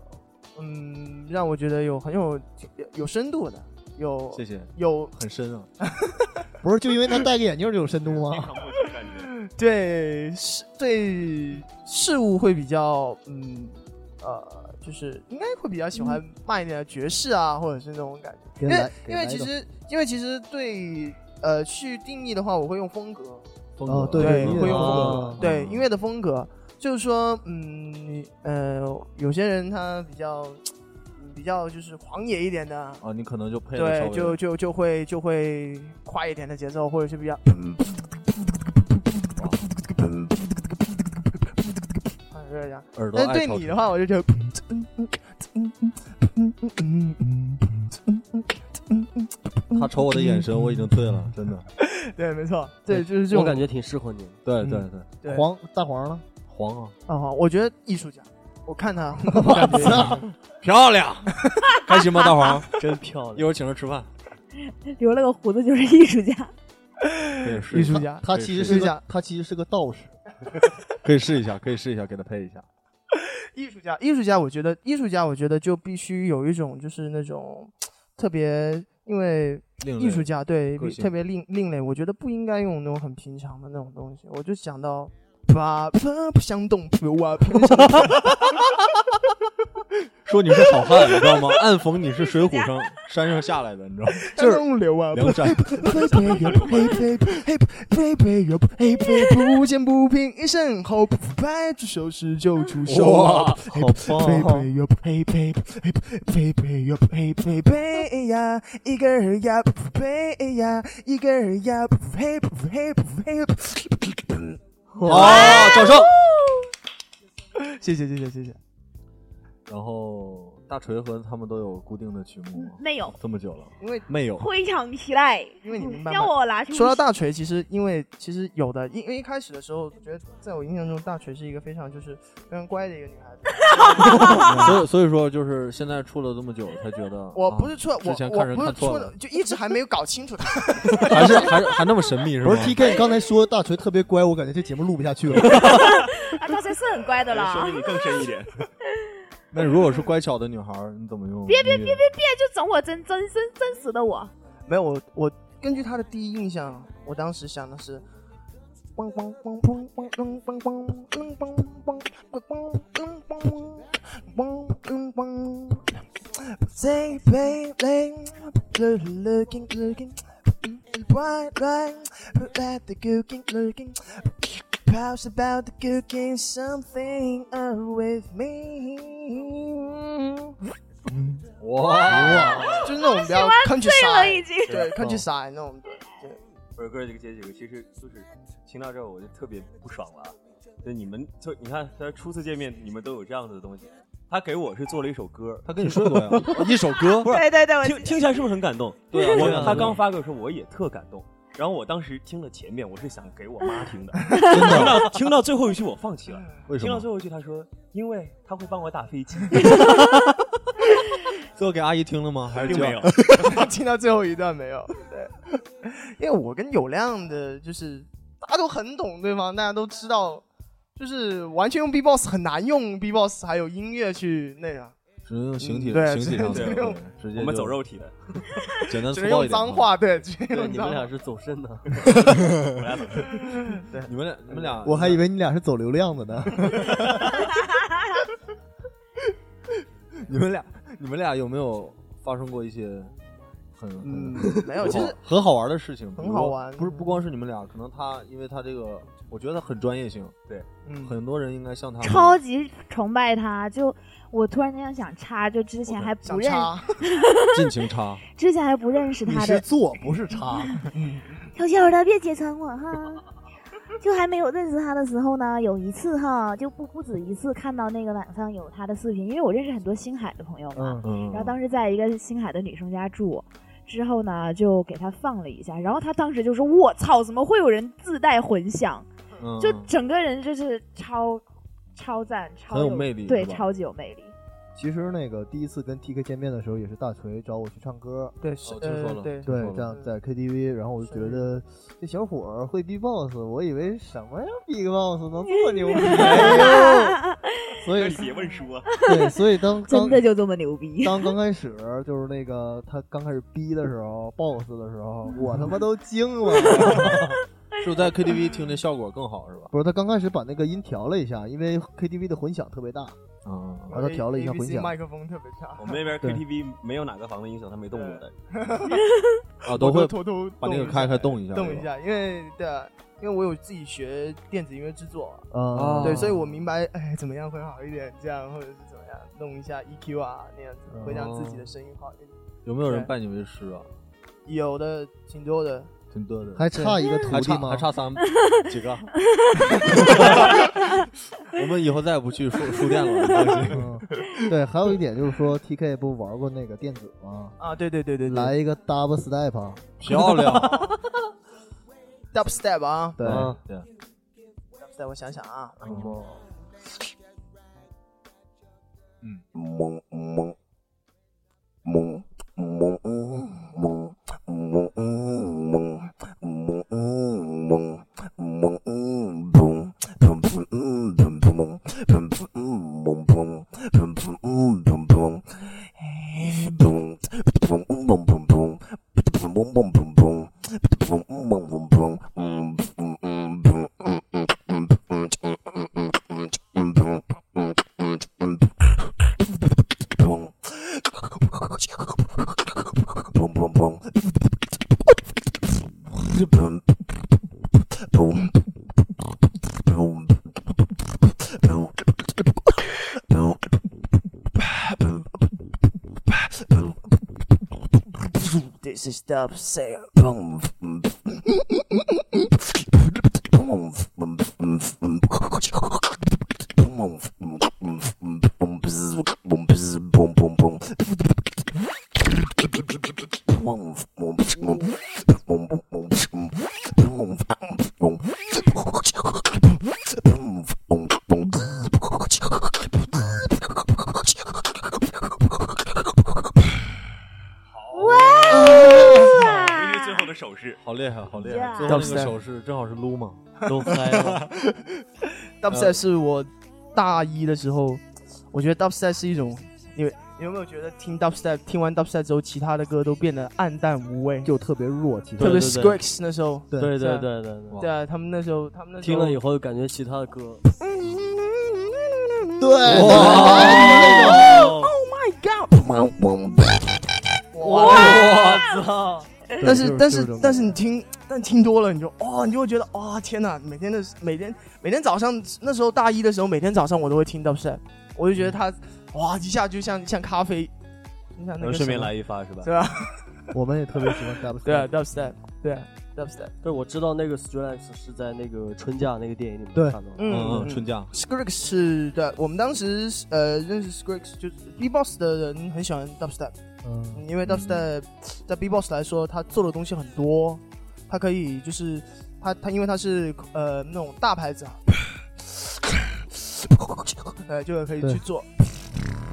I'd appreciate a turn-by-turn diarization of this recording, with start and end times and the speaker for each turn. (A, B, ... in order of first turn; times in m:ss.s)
0:00.6-0:05.1 A
0:04.3-0:05.7 B
0:06.6-0:08.6 C
0:08.1-0:09.4 D
0:09.4-0:23.4 A
0:18.6-0:19.5 C
0:23.8-0:25.8 B
0:23.8-0:25.4 C
0:24.2-0:30.6 A
0:24.5-0:25.4 E
0:31.2-0:33.0 A
0:33.0-0:34.4 B
0:33.7-0:37.8 A
0:40.0-0:40.4 A
0:42.3-0:50.4 A
0:42.9-0:43.8 B
0:49.7-0:51.7 B
0:51.8-0:53.6 A
0:53.2-0:54.4 E
0:54.4-0:55.1 B
0:55.2-0:55.4 A
0:55.2-0:56.2 C
0:56.5-0:57.0 B
0:57.1-1:00.2 A
0:59.3-1:00.2 C
1:00.6-1:04.1 B
1:02.2-1:02.5 F
1:02.7-1:03.5 E
1:04.6-1:06.5 F
1:07.1-1:09.0 A
1:07.4-1:08.9 B
1:07.8-1:10.2 C
1:11.0-1:12.7 B
1:13.1-1:28.6 A
1:19.8-1:21.1 B
1:30.2-1:34.5 B
1:34.3-1:54.4 A
1:34.4-1:34.6 C
1:35.1-1:36.8 B
1:36.1-1:37.0 D
1:39.1-1:39.4 F
1:42.8-1:43.6 B
1:43.7-1:44.7 E
1:55.0-1:55.6 A
1:55.0-1:56.1 B
1:55.2-1:56.7 F
1:57.6-1:58.6 A
1:59.7-2:04.5 B
2:02.6-2:03.2 F
2:03.8-2:04.0 A
2:04.4-2:07.0 F
2:05.6-2:14.4 A
2:14.0-2:14.5 F
2:14.1-2:19.1 B
2:14.4-2:14.8 C
2:17.3-2:21.5 A
2:21.0-2:22.8 B
2:22.4-2:25.8 C
2:25.6-2:28.0 F
2:25.8-2:26.1 D
2:27.2-2:28.7 D
2:29.5-2:32.0 B
2:31.5-2:34.3 F
2:34.7-2:38.0 A
2:39.0-3:00.6 A
3:01.6-3:02.9 B
3:02.0-3:02.8 C
3:02.3-3:06.4 A
3:02.6-3:04.9 F
3:04.7-3:05.2 B
3:06.8-3:16.5 D
3:15.6-3:17.4 B
3:17.2-3:18.2 F
3:17.2-3:29.9 D
3:19.1-3:20.0 B
3:19.3-3:20.0 E
3:24.3-3:24.8 F
3:24.4-3:25.1 B
3:26.7-3:27.1 B
3:31.5-3:33.6 B
3:32.5-3:33.2 D
3:33.3-3:40.4 A
3:41.0-3:44.9 A
3:45.2-3:47.8 B
3:45.6-3:47.0 A
3:46.5-3:48.1 D
3:48.4-3:49.9 B
3:49.1-3:51.1 A
3:50.5-3:52.2 E
3:52.7-3:53.4 D
3:53.4-3:54.1 A
3:54.0-3:55.2 B
3:54.8-3:57.0 C
4:00.2-4:03.2 B
4:03.8-4:10.4 B
4:04.0-4:05.2 A
4:06.2-4:07.1 A
4:10.8-4:11.1 A
4:11.0-4:12.4 B
4:12.0-4:17.8 F
4:15.9-4:16.1 D
4:16.2-4:17.0 A
4:17.5-4:18.2 B
4:18.4-4:19.6 F
4:19.2-4:20.8 C
4:20.9-4:21.3 A
4:21.5-4:23.2 F
4:24.0-4:39.1 F
4:30.7-4:31.0 C
4:31.0-4:31.6 B
4:39.4-4:39.9 B
4:39.6-4:41.4 F
4:41.9-4:44.3 F
4:42.7-4:43.7 B
4:44.7-4:48.4 C
4:48.4-4:50.1 A
4:48.6-4:49.9 B
4:49.4-4:57.1 C
4:51.0-4:51.5 A
4:55.9-4:57.6 F
4:56.1-4:56.9 D
4:56.3-4:56.8 B
4:57.8-4:58.9 D
4:57.8-4:58.2 C
4:58.8-5:01.3 F
4:59.0-5:00.2 C
5:01.0-5:07.3 C
5:07.8-5:09.7 B
5:09.7-5:13.2 C
5:13.4-5:14.0 B
5:13.9-5:14.9 C
5:13.9-5:16.0 A
5:15.8-5:18.3 D
5:17.9-5:19.0 A
5:19.6-5:21.9 B
5:19.7-5:25.5 A
5:25.5-5:26.3 C
5:25.7-5:26.6 B
5:26.0-5:32.3 A
5:30.9-5:31.2 C
5:31.0-5:31.7 B
5:32.6-5:33.9 B
5:32.8-5:33.1 A
5:34.4-5:35.9 A
5:36.1-5:39.1 B
5:36.5-5:37.9 C
5:39.7-5:40.7 B
5:41.5-5:44.0 B
5:43.7-5:47.6 C
5:47.6-5:48.5 A
5:48.2-5:49.9 C
5:50.0-5:50.9 B
5:50.1-5:51.0 E
5:52.3-5:53.2 A
5:53.2-5:53.5 C
5:53.2-5:53.9 B
5:53.2-5:53.6 E
5:54.8-5:55.9 A
5:55.8-5:56.3 E
5:55.9-5:56.1 B
5:55.9-5:56.2 C
6:15.5-6:17.3 A
6:44.6-6:45.2 A
6:46.3-6:46.9 A
6:48.2-6:50.7 A
6:58.8-6:59.9 A
7:17.7-7:20.8 D
7:17.9-7:20.3 F
7:20.8-7:24.4 B
7:21.3-7:22.2 F
7:21.8-7:22.3 A
7:23.6-7:24.4 E
7:25.6-7:34.5 A
7:25.7-7:26.0 B
7:34.4-7:35.7 C
7:35.4-7:36.0 E
7:35.4-7:37.3 A
7:36.7-7:37.8 E
7:37.8-7:39.4 A
7:39.0-7:40.6 E
7:40.8-7:41.9 A
7:42.5-7:46.7 A
7:42.6-7:44.5 C
7:42.8-7:44.4 B
7:43.0-7:44.9 E
7:47.5-7:48.3 A
7:47.6-7:49.3 E
7:47.8-7:48.7 B
7:49.6-8:00.7 A
7:49.6-7:50.8 C
8:01.4-8:03.4 A
8:01.6-8:02.7 D
8:03.5-8:04.9 C
8:04.6-8:06.5 A
8:06.6-8:10.7 E
8:10.2-8:16.5 A
8:10.3-8:11.1 B
8:16.8-8:17.2 C
8:17.1-8:25.0 A
8:17.4-8:17.8 B
8:27.4-8:28.7 A